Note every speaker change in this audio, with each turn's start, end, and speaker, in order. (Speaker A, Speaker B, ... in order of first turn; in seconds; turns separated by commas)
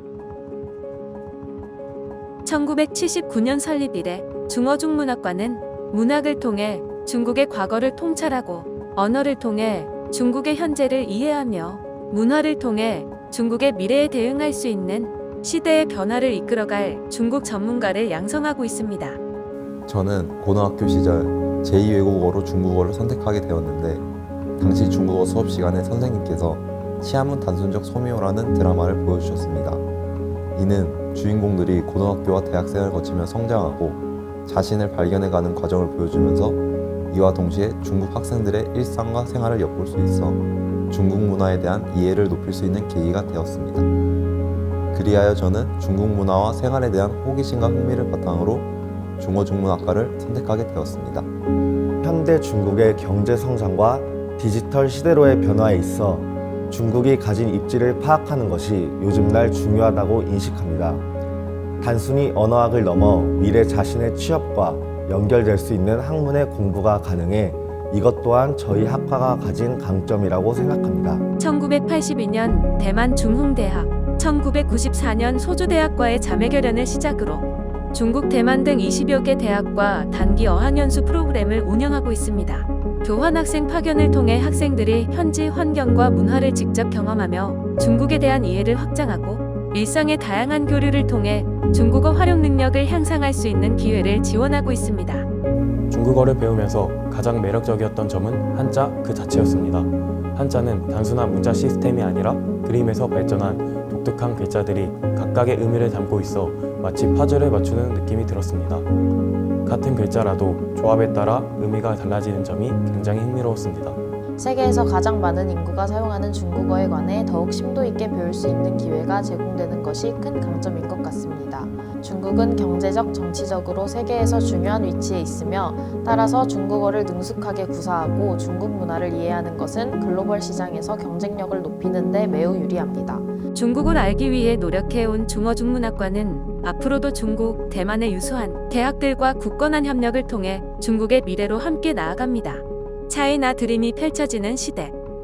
Speaker A: 2.4-19.2, Speaker B: 19.9-24.1, Speaker B: 24.6-29.8, Speaker B: 30.5-43.9, Speaker B: 44.9-51.3, Speaker C: 52.0-61.0, Speaker C: 61.8-71.2, Speaker A: 71.4-95.2, Speaker D: 95.9-108.9, Speaker D: 109.6-114.0, Speaker E: 114.4-133.3, Speaker A: 133.5-144.9